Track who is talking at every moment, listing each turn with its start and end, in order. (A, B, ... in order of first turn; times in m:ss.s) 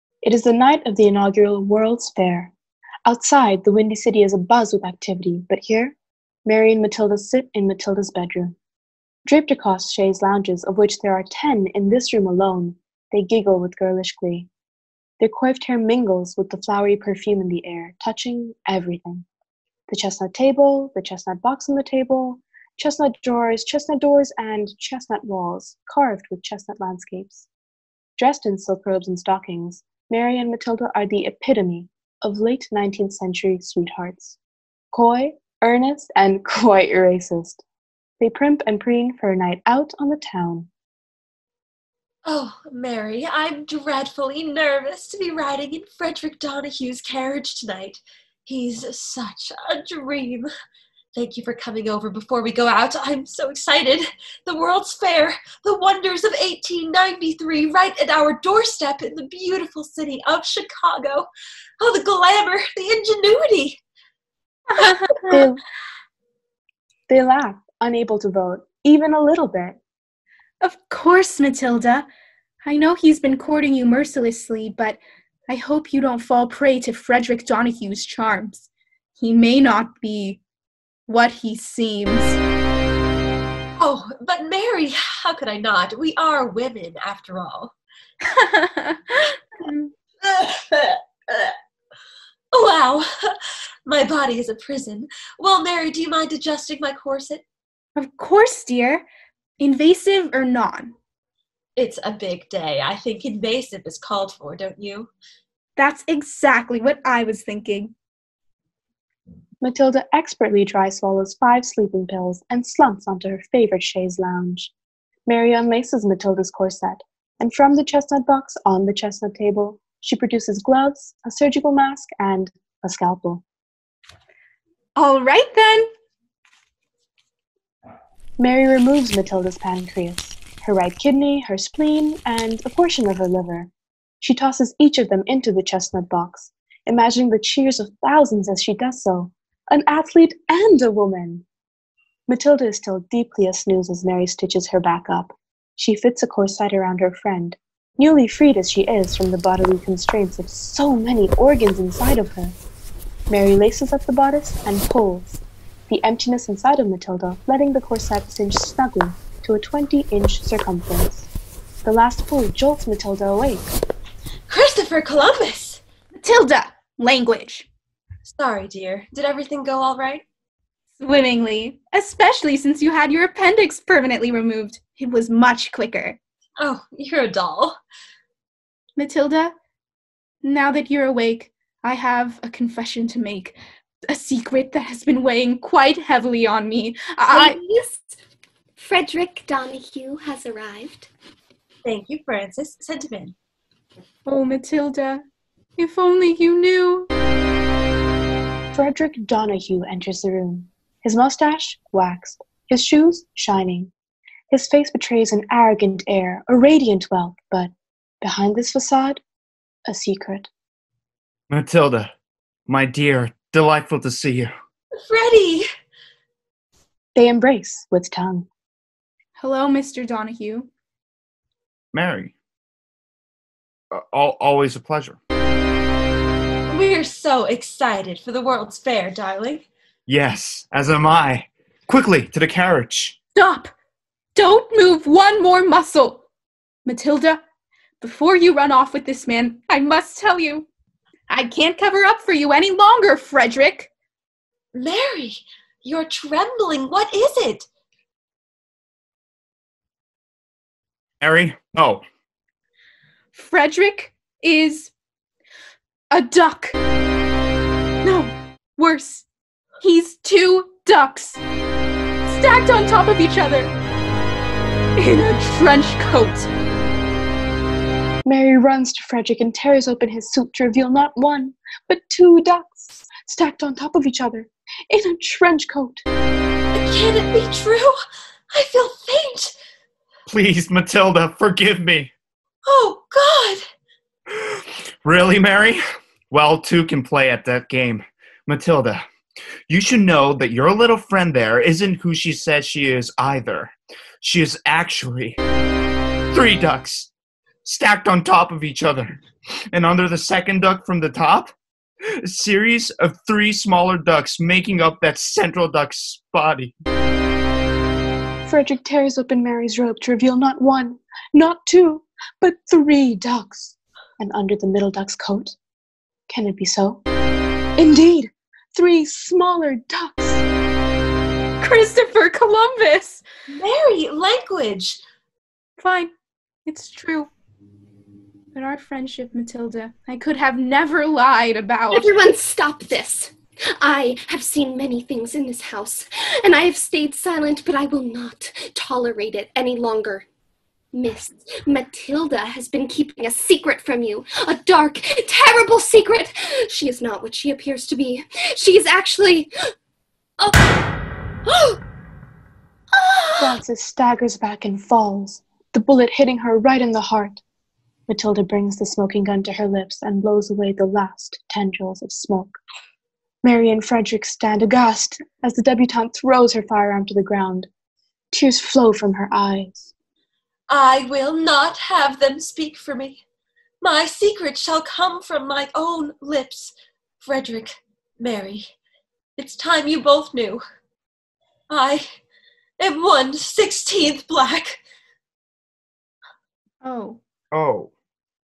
0:00.2-0:02.5 A
0:03.1-0:08.6 A
0:09.3-0:14.5 A
0:15.2-0:19.3 A
0:19.9-0:27.5 A
0:28.2-0:34.4 A
0:34.9-0:37.6 A
0:38.2-0:40.7 A
0:42.3-0:50.5 B
0:51.2-1:01.3 B
1:01.8-1:03.8 B
1:04.7-1:05.4 C
1:05.3-1:05.6 A
1:07.1-1:09.8 A
1:10.6-1:12.1 C
1:12.6-1:20.4 C
1:21.1-1:22.4 C
1:23.8-1:27.7 B
1:28.4-1:29.0 C
1:29.6-1:29.9 C
1:30.2-1:31.5 B
1:32.5-1:33.1 B
1:33.9-1:37.4 B
1:38.0-1:39.0 C
1:39.6-1:41.0 C
1:41.8-1:45.1 B
1:45.8-1:47.9 C
1:49.6-1:54.7 A
1:55.3-2:03.4 A
2:05.0-2:05.9 C
2:08.4-2:21.4 A
2:22.3-2:32.6 A
2:33.3-2:41.3 A
2:41.8-2:43.7 A
2:44.5-2:45.8 B
2:46.2-2:47.7 C
2:48.2-2:50.2 B
2:51.0-2:56.2 C
2:56.6-2:57.8 B
2:59.0-2:59.5 C
3:00.4-3:03.6 C
3:04.1-3:07.6 C
3:07.3-3:08.1 D
3:08.8-3:11.1 D
3:11.8-3:13.4 B
3:14.3-3:15.2 C
3:15.8-3:17.1 C
3:18.7-3:23.9 A
3:24.5-3:29.2 A
3:29.9-3:30.5 A
3:31.5-3:32.1 E
3:32.7-3:34.5 E
3:35.1-3:35.7 B
3:37.2-3:38.5 A
3:39.4-3:40.7 C
3:41.9-3:42.4 E
3:43.9-3:45.2 E
3:46.7-3:49.7 B
3:50.1-3:53.2 E
3:53.4-3:53.7 C
3:54.4-3:56.2 C
3:56.8-3:57.4 C
3:58.0-4:00.7 C
4:01.3-4:03.9 C
4:04.7-4:07.7 B
4:11.2-4:12.0 E
4:13.3-4:14.9 C
4:16.1-4:16.8 C
4:18.0-4:19.3 C
4:19.8-4:21.4 C
4:22.2-4:23.7 C
4:25.0-4:26.5 C
4:28.3-4:36.0 A
4:36.8-4:37.9 B
4:38.5-4:39.5 B
4:40.3-4:42.1 E
4:42.7-4:43.6 B
4:44.4-4:49.0 E
4:49.7-4:55.4 E
4:56.3-4:57.1 E
4:57.6-5:01.5 E
5:02.2-5:06.7 E
5:08.4-5:15.6 A
5:16.3-5:17.0 A
5:17.8-5:20.5 A
5:21.6-5:23.2 C
5:23.5-5:25.0 B
5:25.8-5:26.1 C
5:26.7-5:27.3 C
5:28.5-5:32.1 C
5:31.9-5:40.3 D
5:40.9-5:49.5 D
5:50.4-5:50.7 B
5:51.5-5:51.8 B
5:53.0-5:53.6 B
5:53.4-5:57.4 A
5:58.1-6:02.6 A
6:03.4-6:07.7 A
6:08.3-6:09.9 A
6:10.7-6:13.2 B
6:13.8-6:18.7 B
6:19.4-6:20.6 B
6:21.7-6:22.0 B
6:22.8-6:24.8 B
6:26.8-6:27.2 C
6:27.5-6:27.9 E